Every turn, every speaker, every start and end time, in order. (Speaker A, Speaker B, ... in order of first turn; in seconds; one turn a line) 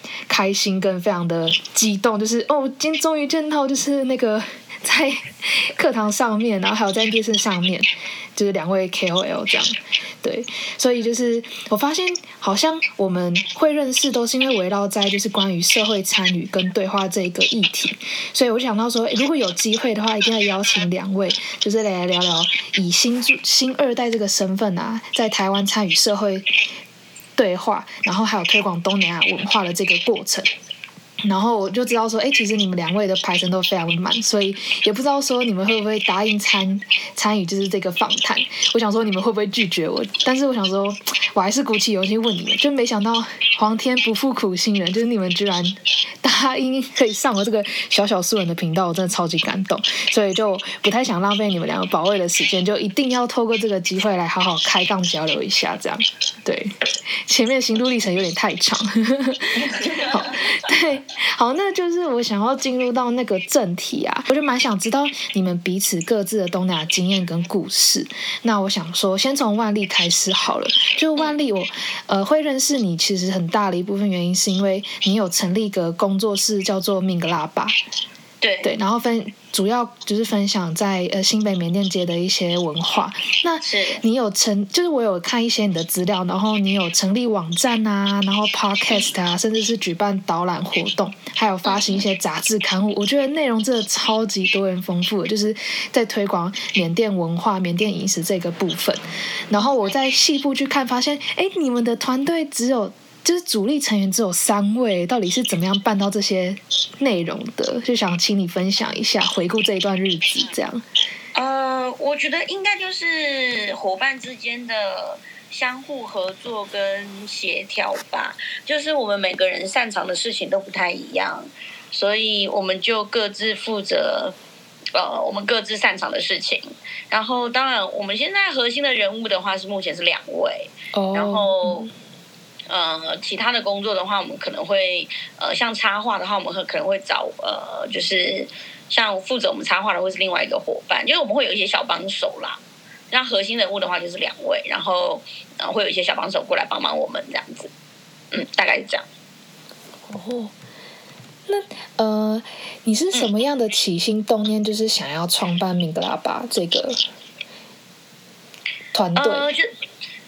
Speaker A: 0.3-26.5
Speaker A: 27.4-30.5
Speaker A: 31.2-77.8
Speaker B: 78.4-78.7
Speaker A: 78.6-110.8
Speaker B: 83.6-84.0
Speaker B: 91.7-92.0
Speaker B: 111.3-124.3
Speaker B: 124.9-131.9
Speaker A: 130.9-131.9
Speaker B: 132.7-142.6
Speaker B: 143.1-147.7
Speaker B: 148.3-149.1
Speaker A: 150.1-150.5
Speaker A: 151.5-157.0
Speaker A: 158.9-159.5
Speaker B: 159.2-159.7